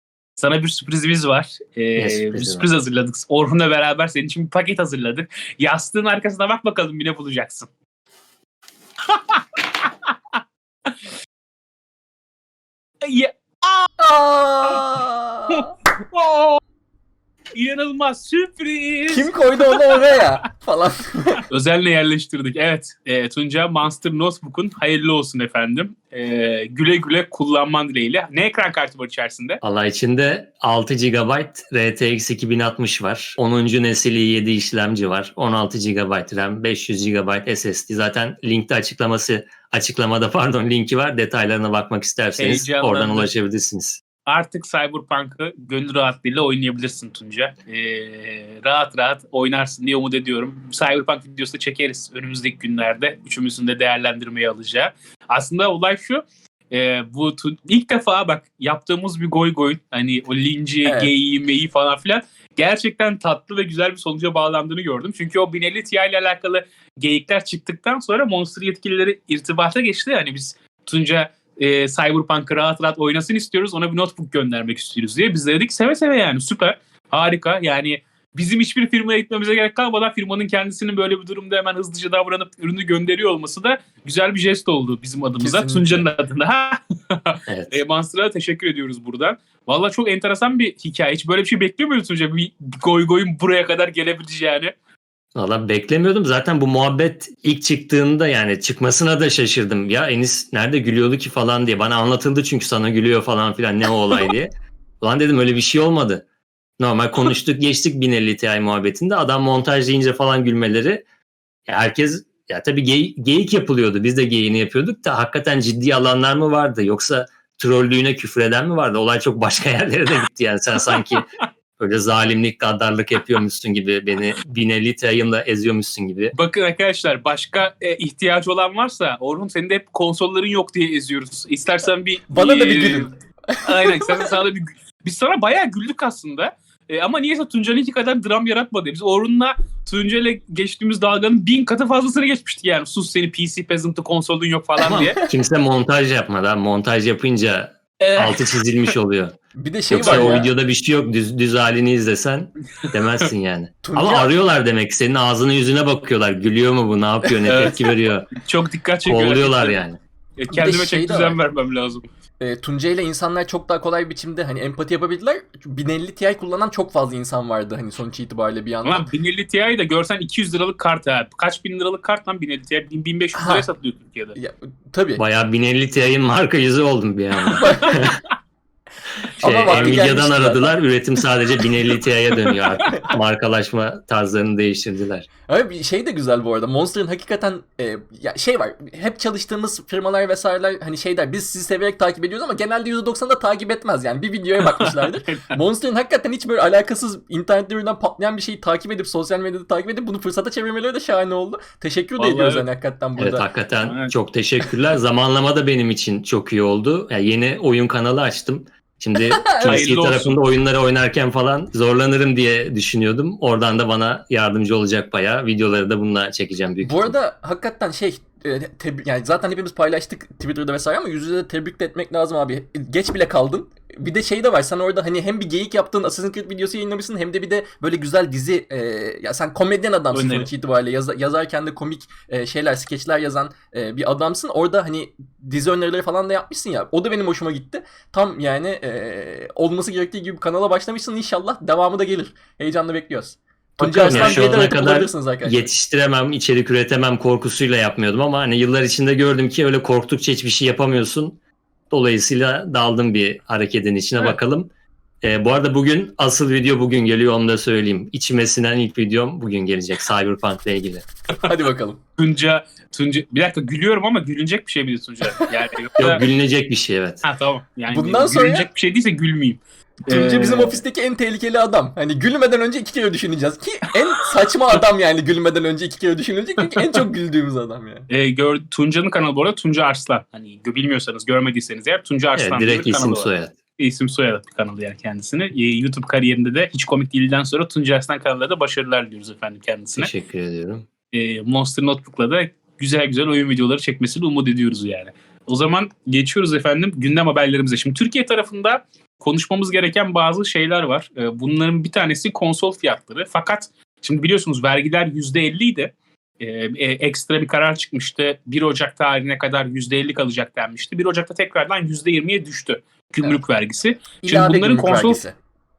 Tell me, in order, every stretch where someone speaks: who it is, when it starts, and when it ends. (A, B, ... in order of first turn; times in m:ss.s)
0:00.4-0:07.7 A
0:02.0-0:02.7 B
0:09.1-0:11.0 A
0:13.0-0:13.9 A
0:14.0-0:15.7 C
0:15.5-0:16.6 A
0:17.5-0:19.8 A
0:19.1-0:21.4 C
0:21.5-0:29.6 A
0:29.6-0:44.0 B
0:42.4-0:43.3 A
0:44.2-1:34.7 A
1:00.8-1:01.1 C
1:25.4-1:26.1 C
1:27.5-1:27.8 B
1:35.3-1:46.2 B
1:46.8-1:51.0 B
1:51.7-2:06.3 B
2:06.3-2:13.1 A
2:12.3-2:14.3 C
2:13.6-2:25.2 A
2:24.8-2:29.4 B
2:25.0-2:25.3 C
2:28.0-2:28.6 A
2:29.6-2:30.5 C
2:29.9-2:38.3 B
2:30.0-2:30.4 A
2:33.8-2:34.4 C
2:37.4-2:37.8 A
2:38.4-2:39.8 A
2:39.0-2:40.0 B
2:40.4-2:42.0 A
2:40.5-2:41.4 C
2:42.4-2:49.1 C
2:48.8-2:54.4 A
2:53.3-2:53.7 C
2:54.4-2:55.2 C
2:55.2-2:58.2 B
2:57.6-2:57.9 A
2:57.6-2:57.9 C
2:59.4-3:05.3 B
2:59.4-3:00.8 C
3:05.5-3:23.5 C
3:14.6-3:15.5 A
3:22.2-3:22.6 A
3:23.2-3:37.1 B
3:23.8-3:24.1 A
3:29.4-3:29.8 C
3:29.6-3:30.4 A
3:36.8-4:05.7 C
3:50.1-3:50.5 A
4:03.8-4:11.4 B
4:04.0-4:04.6 A
4:11.9-4:14.7 B
4:15.2-4:21.0 B
4:21.4-4:22.0 C
4:22.2-4:26.3 A
4:26.0-4:27.2 B
4:27.2-4:30.8 A
4:27.9-4:28.7 C
4:30.1-4:38.1 C
4:38.1-4:50.1 A
4:42.3-4:43.5 B
4:50.0-4:50.8 B
4:51.1-5:15.2 A
5:14.2-5:15.4 C